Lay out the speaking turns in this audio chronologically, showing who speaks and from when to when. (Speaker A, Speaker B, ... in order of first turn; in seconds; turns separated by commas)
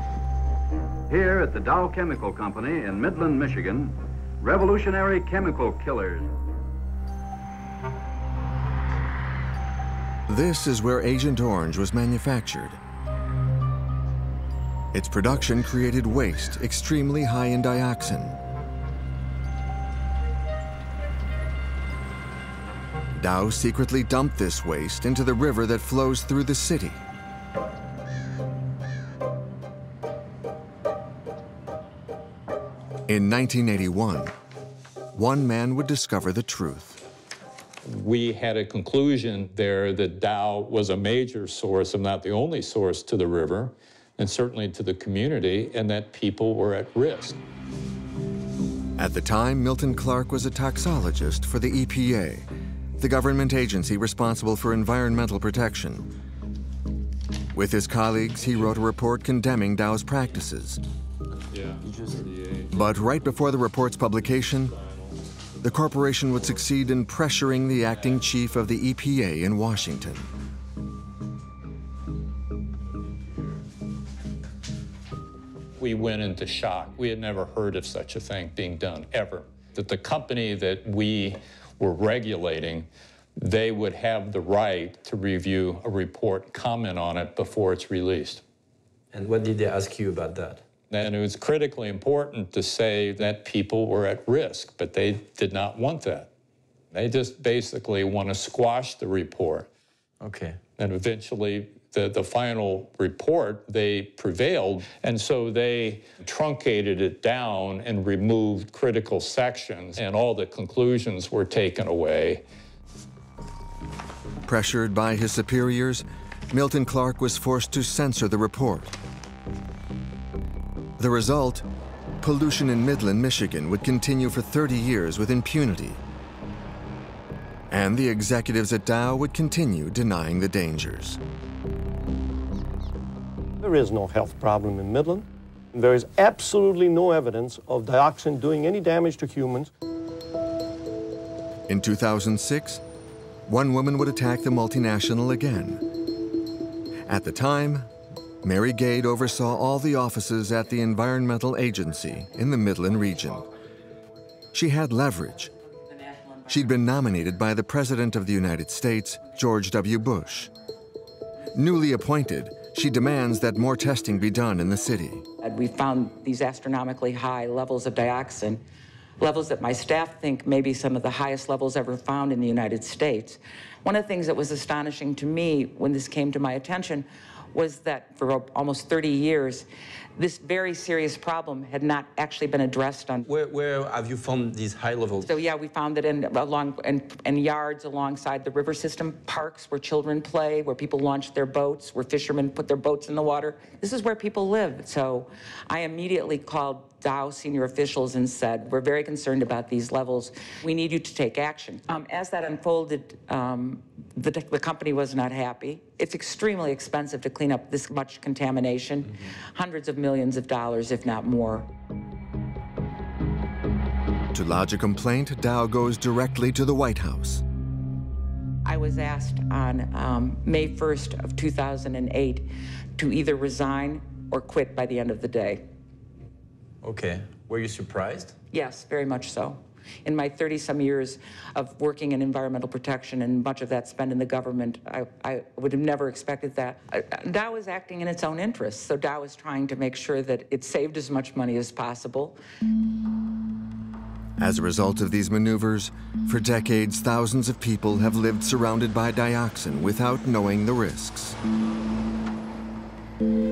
Speaker A: 1.1-6.3, Speaker B: 10.3-12.8, Speaker B: 14.9-18.4, Speaker B: 23.1-27.0, Speaker B: 33.1-34.3, Speaker B: 35.1-37.0, Speaker C: 37.8-47.4, Speaker B: 49.0-52.5, Speaker B: 53.0-56.1, Speaker B: 57.5-60.8, Speaker D: 61.8-62.3, Speaker B: 62.7-64.8, Speaker B: 65.6-70.3, Speaker C: 75.8-88.4, Speaker D: 89.1-90.6, Speaker C: 90.9-96.3, Speaker C: 96.9-99.7, Speaker D: 100.2-100.6, Speaker C: 100.8-112.4, Speaker B: 114.4-119.0, Speaker B: 121.0-121.7, Speaker B: 122.2-126.0, Speaker B: 127.7-131.2, Speaker E: 133.6-139.7, Speaker B: 141.7-142.8, Speaker B: 143.5-145.8, Speaker B: 147.1-147.9, Speaker B: 148.4-153.5, Speaker B: 154.5-155.5, Speaker B: 156.4-160.5, Speaker B: 161.5-165.2, Speaker F: 165.4-168.6, Speaker F: 169.2-183.2, Speaker D: 183.2-185.3, Speaker F: 185.2-211.7, Speaker B: 214.3-217.4, Speaker F: 218.6-225.7, Speaker D: 226.8-228.3, Speaker F: 228.5-242.4, Speaker B: 244.4-251.4